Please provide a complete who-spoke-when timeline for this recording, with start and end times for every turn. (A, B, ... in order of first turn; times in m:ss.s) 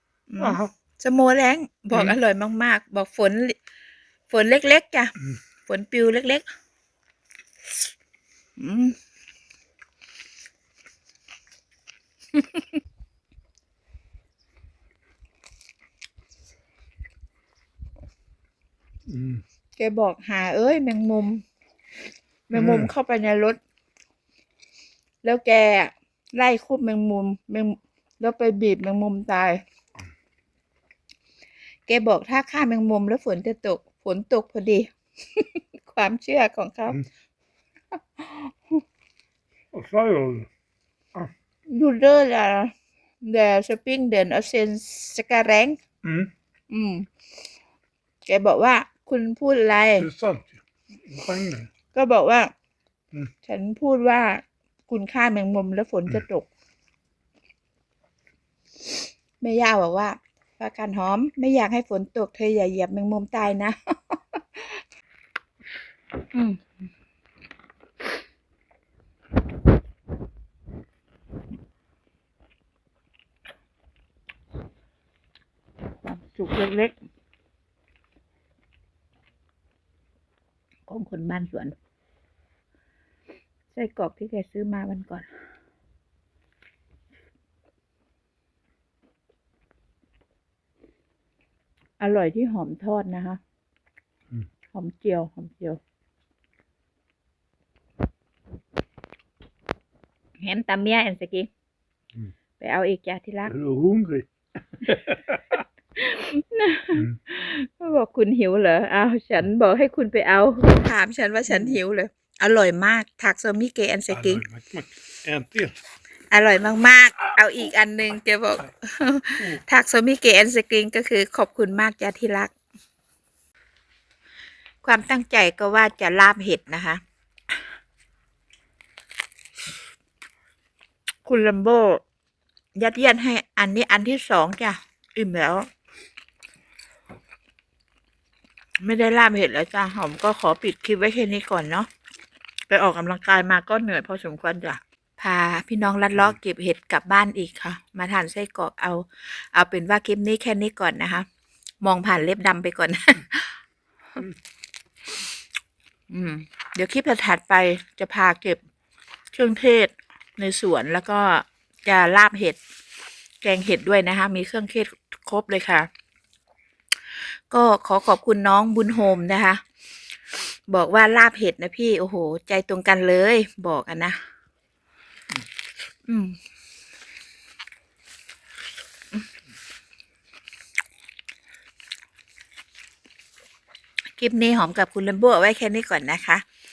0:00.3-0:03.6 A
0:00.4-0:00.7 B
0:04.3-0:05.1 A
0:05.6-0:06.4 A
0:08.6-0:09.0 A
0:19.1-0:19.4 B
0:19.8-0:21.4 A
0:22.5-0:23.6 A
0:22.5-0:22.9 B
0:25.2-0:29.6 A
0:31.9-0:37.0 A
0:38.2-0:38.8 A
0:39.7-0:40.5 B
0:41.7-0:42.7 A
0:43.2-0:45.8 A
0:46.0-0:46.3 B
0:46.7-0:47.0 A
0:48.2-0:50.1 A
0:50.0-0:51.7 B
0:51.9-0:52.5 A
0:53.4-0:56.5 A
0:59.4-1:04.7 A
1:06.3-1:06.6 A
1:16.0-1:16.9 A
1:20.9-1:21.7 A
1:23.7-1:25.3 A
1:32.0-1:33.4 A
1:34.7-1:35.8 A
1:40.4-1:41.5 A
1:42.6-1:43.5 A
1:43.4-1:45.6 B
1:46.0-1:54.4 A
1:54.1-1:55.8 B
1:56.3-2:02.5 A
2:04.8-2:07.0 A
2:11.2-2:12.0 A
2:12.7-2:15.7 A
2:18.8-2:21.9 A
2:22.7-2:31.2 A
2:31.8-2:33.6 A
2:36.1-2:38.6 A
2:39.3-2:42.6 A
2:43.4-2:45.9 A
2:47.5-2:49.6 A
2:50.7-2:54.2 A
2:56.1-2:56.4 A
3:04.2-3:06.4 A